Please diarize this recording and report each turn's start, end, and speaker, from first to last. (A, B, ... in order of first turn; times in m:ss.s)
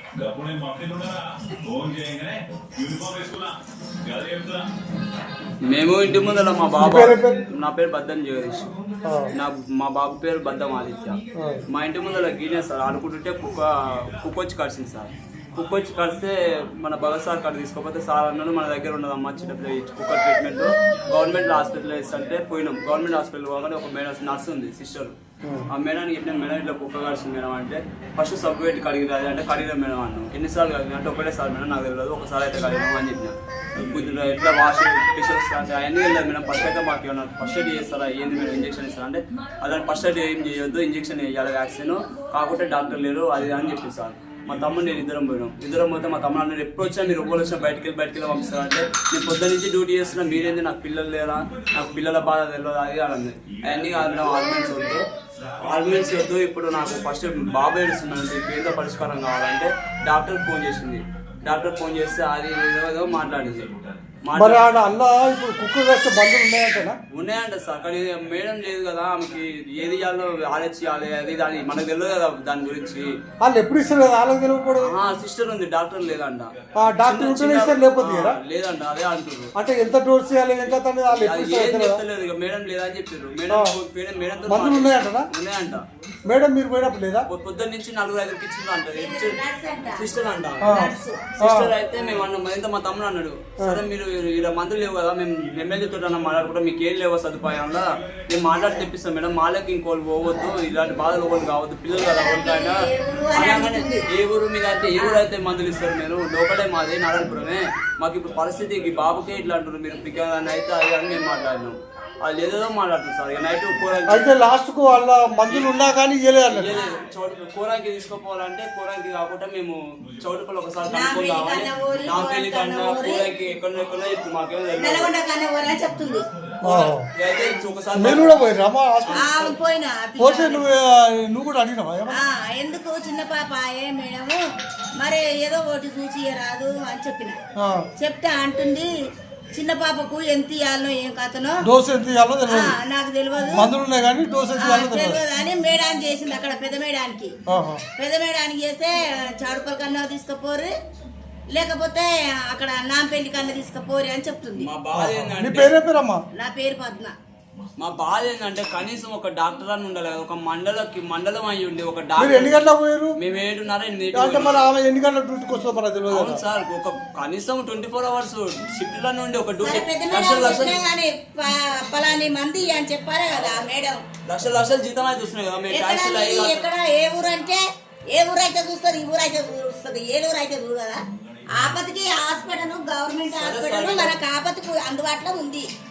0:00.2-0:02.3 A
0:02.8-0:03.5 A
0:04.2-0:04.5 A
0:05.7-0:08.7 B
0:06.8-0:07.5 C
0:09.1-0:09.3 C
0:09.3-0:25.2 B
0:11.4-0:11.6 C
0:25.4-0:25.7 C
0:25.7-0:55.0 B
0:55.6-1:03.7 B
1:04.3-1:04.6 B
1:04.4-1:07.0 C
1:07.1-1:13.1 B
1:13.4-1:14.9 C
1:14.8-1:19.5 B
1:16.8-1:18.4 C
1:19.6-1:22.0 C
1:21.1-1:25.8 B
1:23.5-1:23.8 C
1:24.5-1:25.3 C
1:26.3-1:27.3 C
1:27.3-1:29.4 B
1:28.9-1:30.1 D
1:30.0-1:42.8 B
1:30.6-1:31.7 C
1:30.6-1:31.3 D
1:41.9-1:44.1 D
1:43.3-1:54.3 B
1:54.1-1:56.8 C
1:56.5-2:05.1 B
2:00.9-2:03.2 D
2:04.8-2:06.3 D
2:06.6-2:07.1 C
2:06.6-2:08.4 B
2:07.2-2:07.6 D
2:08.0-2:09.6 C
2:09.1-2:10.6 D
2:10.2-2:12.2 C
2:12.1-2:14.4 D
2:15.0-2:17.4 D
2:17.6-2:17.9 C
2:18.0-2:18.9 D
2:19.5-2:21.7 D
2:21.6-2:22.8 C
2:22.5-2:23.7 D
2:23.5-2:25.2 C
2:24.6-2:27.3 D
2:27.5-2:27.8 C
2:28.0-2:30.7 D
2:31.5-2:34.7 D
2:34.6-2:35.8 B
2:35.0-2:36.2 C
2:36.4-2:37.2 D
2:37.8-2:42.6 B
2:42.2-2:43.2 C
2:43.2-2:44.6 B
2:44.1-2:46.4 C
2:46.1-2:50.8 B
2:49.6-2:54.0 D
2:54.2-2:56.7 B
2:55.7-3:01.0 D
3:01.6-3:05.7 D
3:03.3-3:04.2 B